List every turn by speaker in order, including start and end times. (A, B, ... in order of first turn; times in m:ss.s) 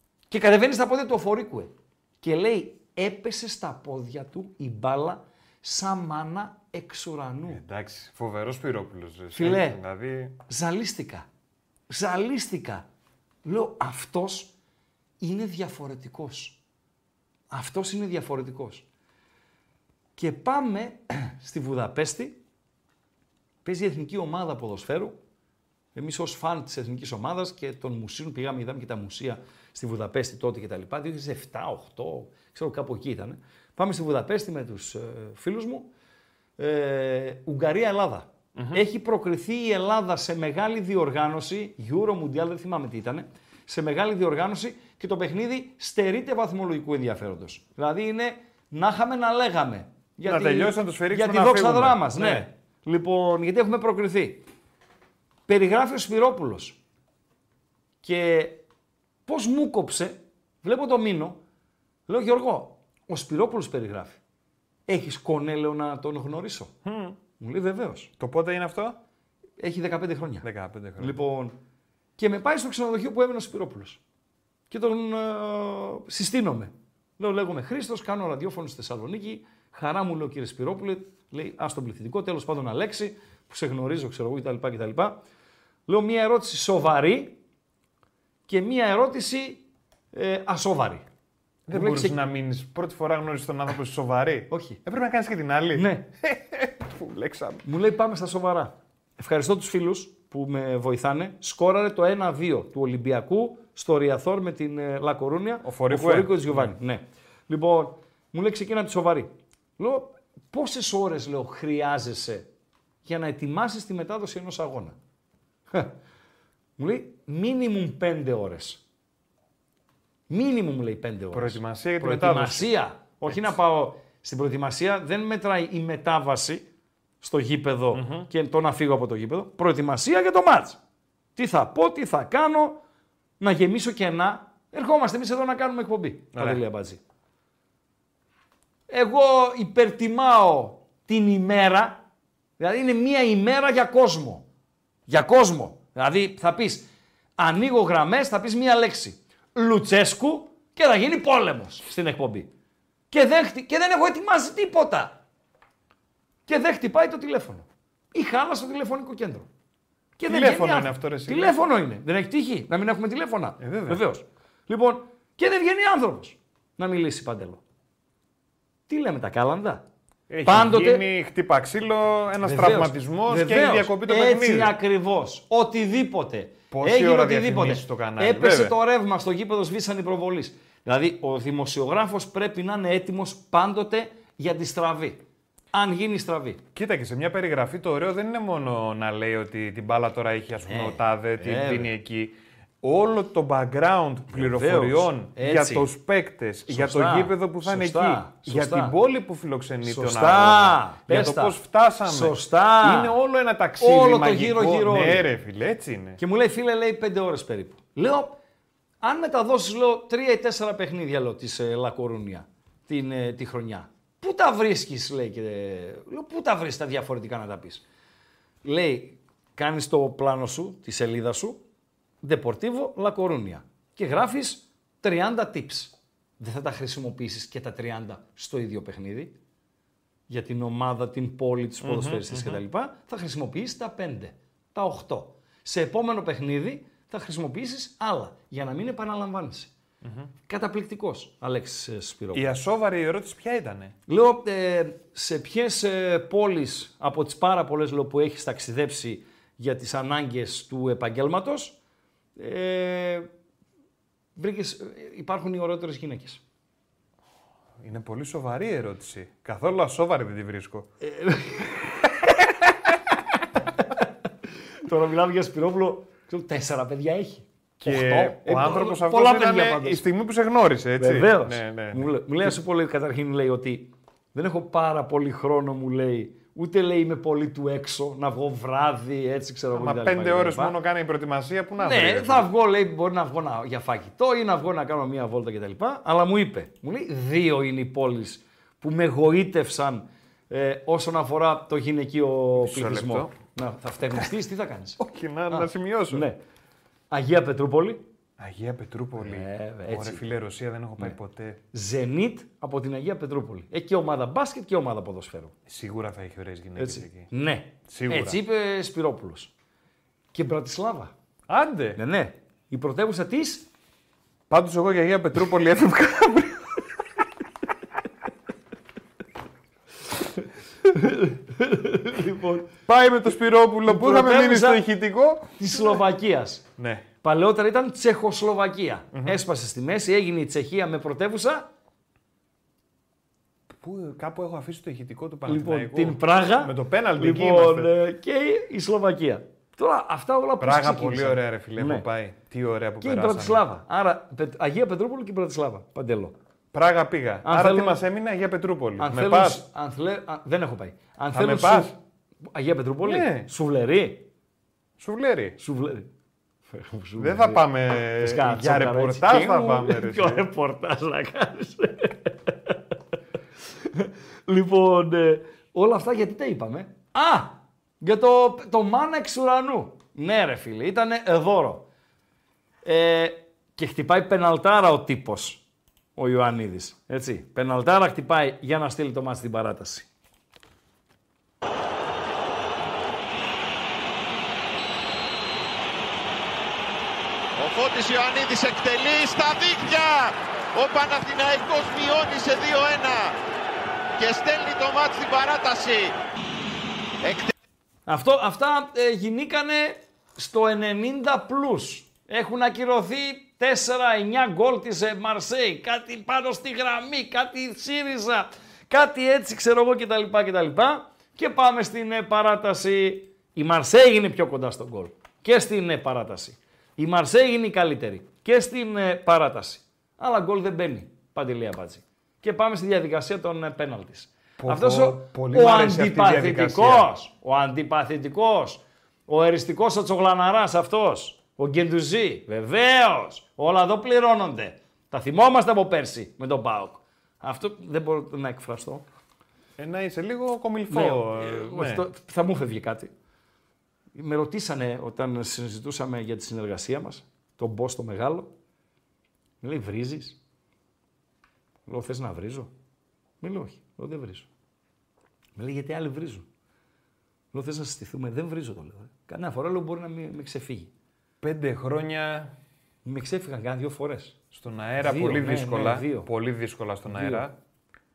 0:00.3-0:07.6 A
0:07.5-0:10.4 B
0:09.3-0:09.8 A
0:10.5-0:11.2 A
0:11.9-0:12.8 A
0:13.4-0:14.5 A
0:15.2-0:16.6 A
0:17.5-0:18.8 A
0:20.2-0:22.4 A
0:23.6-0:25.1 A
0:25.9-0:35.9 A
0:36.6-0:54.4 A
0:38.6-0:38.8 B
0:50.2-0:52.5 B
0:55.5-0:56.8 A
0:58.0-0:58.6 A
0:59.2-1:01.4 A
1:02.1-1:04.2 A
1:04.9-1:06.7 A
1:06.8-1:07.2 B
1:07.4-1:08.1 A
1:08.2-1:09.0 B
1:09.6-1:10.4 A
1:10.4-1:11.2 B
1:11.0-1:11.6 A
1:12.2-1:14.0 A
1:14.7-1:25.2 A
1:25.9-1:27.4 A
1:28.5-1:31.0 A
1:31.7-1:37.6 B
1:31.7-1:32.2 A
1:34.5-1:34.8 A
1:35.7-1:36.0 A
1:37.6-1:52.5 A
1:45.6-1:46.7 B
1:53.0-1:55.0 A
1:56.8-1:58.8 A
2:00.3-2:06.6 A
2:01.3-2:02.7 B
2:03.2-2:03.6 B
2:07.2-2:10.8 A
2:07.9-2:08.3 B
2:11.4-2:12.8 A
2:13.4-2:17.0 A
2:16.3-2:16.6 B
2:18.9-2:22.0 A
2:22.6-2:24.4 A
2:25.1-2:26.8 A
2:27.4-2:32.5 A
2:33.1-2:35.2 A
2:36.5-2:39.5 A
2:40.2-2:47.6 A
2:40.2-2:41.6 B
2:43.6-2:44.0 B
2:48.9-2:49.8 A
2:50.3-2:54.7 B
2:50.4-2:51.0 A
2:52.4-3:05.2 A
2:56.7-2:58.7 B
3:05.7-3:06.6 A
3:06.7-3:26.2 B
3:10.7-3:11.9 A
3:14.3-3:15.9 A
3:16.7-3:18.9 A
3:19.8-3:23.1 A
3:23.8-3:25.3 A
3:26.2-3:28.4 A
3:29.0-3:37.8 A
3:38.6-3:41.6 A
3:42.2-3:49.3 A
3:50.3-3:59.7 A
3:51.8-3:52.6 B
4:00.0-4:00.3 B
4:00.5-4:02.5 A
4:02.3-4:03.9 B
4:04.1-4:11.8 A
4:12.4-4:13.3 A
4:14.4-4:16.4 A
4:17.8-4:20.9 B
4:21.0-4:21.9 A
4:24.8-4:30.0 A
4:27.8-4:32.5 B
4:31.0-4:40.8 A
4:39.7-4:42.5 B
4:41.8-4:56.4 A
4:52.6-4:53.3 B
4:55.0-4:56.2 B
4:57.1-4:58.0 A
4:58.4-5:01.6 B
4:59.2-5:00.3 A
5:01.7-5:05.5 A
5:05.7-5:07.3 B
5:06.8-5:09.5 A
5:07.9-5:08.4 B
5:10.3-5:11.1 A
5:11.5-5:12.0 B
5:12.0-5:13.6 A
5:14.5-5:16.8 B
5:20.9-5:22.7 A
5:22.8-5:26.0 B
5:23.8-5:24.8 A
5:25.6-5:26.6 A
5:26.8-5:27.0 B
5:27.2-5:31.7 A
5:29.1-5:29.4 B
5:33.7-5:37.9 B
5:35.4-5:42.0 A
5:40.6-5:43.6 B
5:43.0-5:46.3 A
5:46.7-5:49.6 B
5:47.4-5:48.0 A
5:49.0-5:52.0 A
5:51.3-5:51.9 B
5:52.5-5:54.2 A
5:53.0-5:53.5 B
5:55.0-5:55.6 B
5:55.6-5:56.1 A
5:56.7-6:02.8 A
5:57.2-6:00.4 B
6:03.8-6:11.9 A
6:12.8-6:15.6 A
6:16.2-6:20.1 A
6:27.6-6:33.3 C
6:34.2-6:36.1 C
6:37.2-6:37.5 C
6:38.0-7:19.0 A
7:04.6-7:07.1 B
7:19.8-7:22.0 B
7:20.9-7:23.1 A
7:24.1-7:28.5 A
7:29.6-7:30.4 A
7:31.9-7:32.7 A
7:33.4-7:34.5 A
7:35.6-7:36.4 A
7:37.5-7:40.9 A
7:41.4-7:42.5 B
7:43.0-7:44.4 A
7:44.5-7:47.5 B
7:45.0-7:46.3 A
7:47.1-7:47.4 A